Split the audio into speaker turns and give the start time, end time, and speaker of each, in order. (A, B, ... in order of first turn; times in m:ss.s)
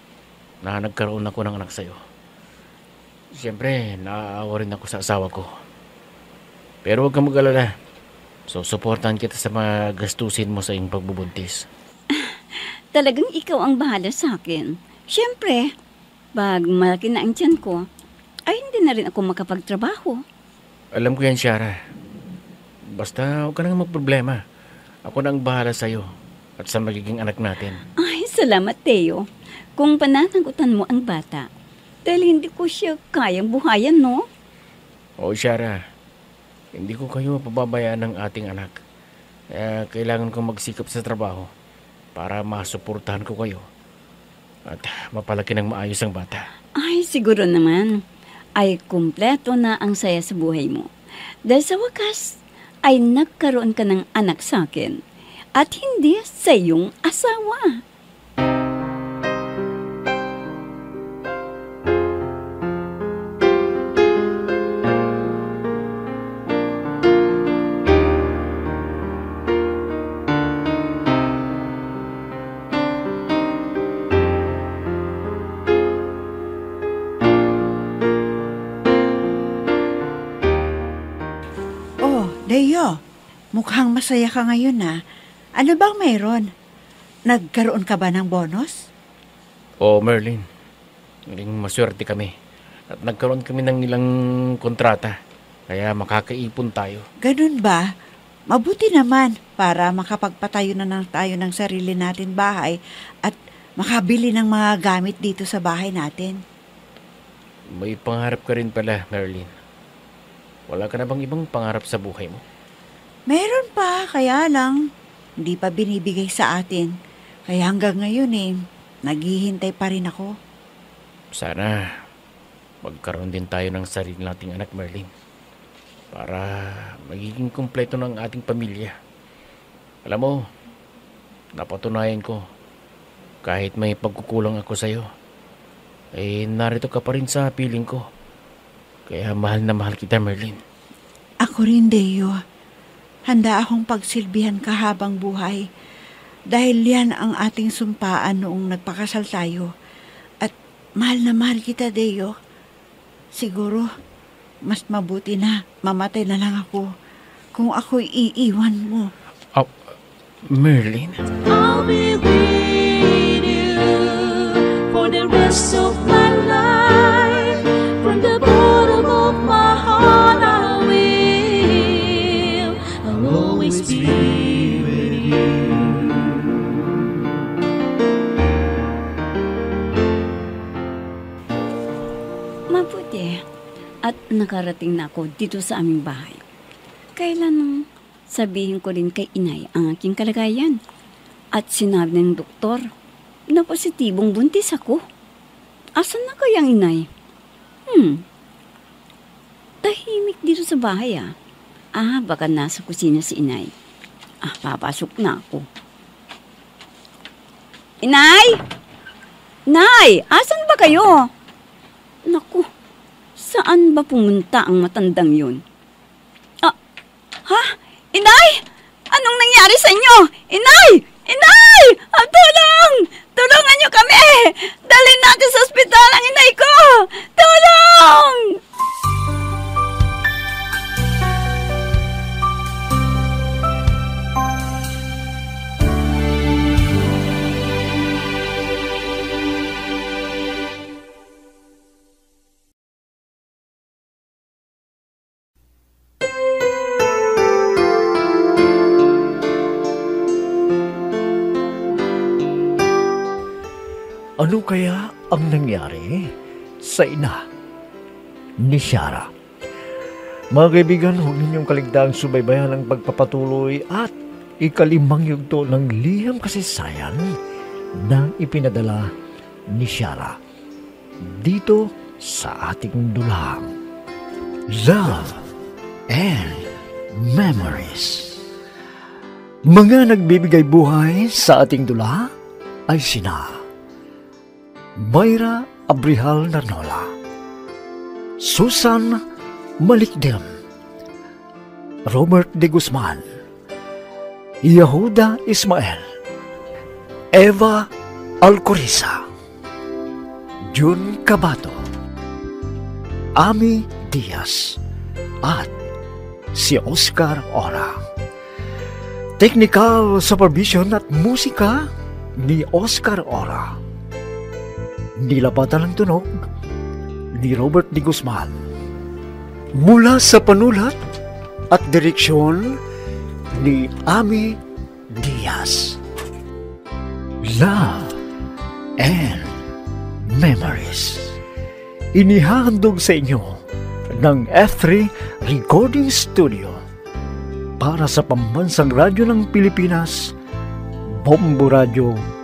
0:00.6-0:02.0 A
0:03.3-0:05.5 A
0:06.8-0:07.7 A
0:08.5-0:11.6 A
0:12.1-0:15.7 B
0:16.4-0:17.8 B
0:18.5-0:20.2 B
0:20.9-0:21.7 A
0:22.9-0:24.4 A
0:25.0-0:26.0 A
0:26.6-0:27.8 A
0:28.0-0:29.2 B
0:29.8-0:31.5 B
0:32.0-0:34.2 B
0:35.2-0:35.8 A
0:36.8-0:38.7 A
0:39.5-0:41.5 A
0:42.1-0:43.6 A
0:44.7-0:46.5 A
0:46.8-0:48.0 B
0:48.6-0:50.9 B
0:51.5-0:55.0 B
0:55.6-0:57.8 B
1:22.0-1:22.9 C
1:23.5-1:25.0 C
1:25.6-1:26.5 C
1:27.3-1:28.8 C
1:29.8-1:30.4 A
1:31.3-1:32.3 A
1:32.9-1:34.1 A
1:34.6-1:35.1 A
1:35.7-1:37.0 A
1:37.2-1:37.8 C
1:38.5-1:46.4 C
1:47.7-1:49.5 A
1:50.7-1:52.4 A
1:53.3-1:54.8 C
1:55.4-1:56.9 C
1:57.5-1:58.5 C
1:59.0-2:00.3 C
2:01.4-2:01.9 A
2:02.8-2:05.1 A
2:06.1-2:08.9 A
2:10.0-2:10.4 A
2:11.6-2:12.4 A
2:13.4-2:15.0 A
2:16.2-2:18.0 A
2:19.1-2:20.6 A
2:21.4-2:22.3 C
2:23.3-2:25.6 C
2:26.5-2:29.7 C
2:30.4-2:32.3 C
2:33.3-2:33.9 C
2:34.7-2:36.9 C
2:37.5-2:39.1 C
2:40.5-2:41.2 A
2:41.5-2:54.6 D
3:02.7-3:03.4 B
3:04.0-3:06.4 B
3:07.2-3:10.8 B
3:11.6-3:12.8 B
3:13.5-3:15.0 B
3:16.0-3:17.1 B
3:17.9-3:18.2 B
3:19.8-3:21.3 B
3:22.0-3:23.7 B
3:24.4-3:25.6 B
3:28.0-3:28.6 B
3:29.7-3:31.2 B
3:32.3-3:32.7 B
3:33.4-3:35.6 B
3:37.5-3:48.6 B
4:14.4-4:16.3 E
4:16.8-4:17.4 E
4:18.6-4:19.3 E
4:20.5-4:27.3 E
4:28.0-4:29.1 E
4:29.7-4:30.4 E
4:31.2-4:33.7 E
4:34.7-4:35.4 E
4:36.1-4:38.4 E
4:39.7-4:42.3 E
4:42.9-4:43.6 E
4:45.0-4:47.1 E
4:48.4-4:49.2 E
4:49.8-4:50.5 E
4:52.1-4:53.2 E
4:54.6-4:56.0 E
4:57.3-4:57.9 E
4:58.4-4:59.2 E
5:00.7-5:01.8 E
5:03.4-5:04.8 E
5:05.4-5:05.7 E
5:06.5-5:08.0 E
5:09.4-5:11.9 E
5:12.4-5:13.8 E
5:15.2-5:16.3 E
5:17.4-5:18.5 E
5:19.8-5:21.0 E
5:21.7-5:22.8 E
5:23.5-5:24.6 E
5:25.1-5:26.0 E
5:27.4-5:28.2 E
5:29.0-5:29.6 E
5:30.3-5:31.4 E
5:32.1-5:33.6 E
5:34.1-5:36.8 E
5:37.8-5:40.3 E
5:41.2-5:42.2 E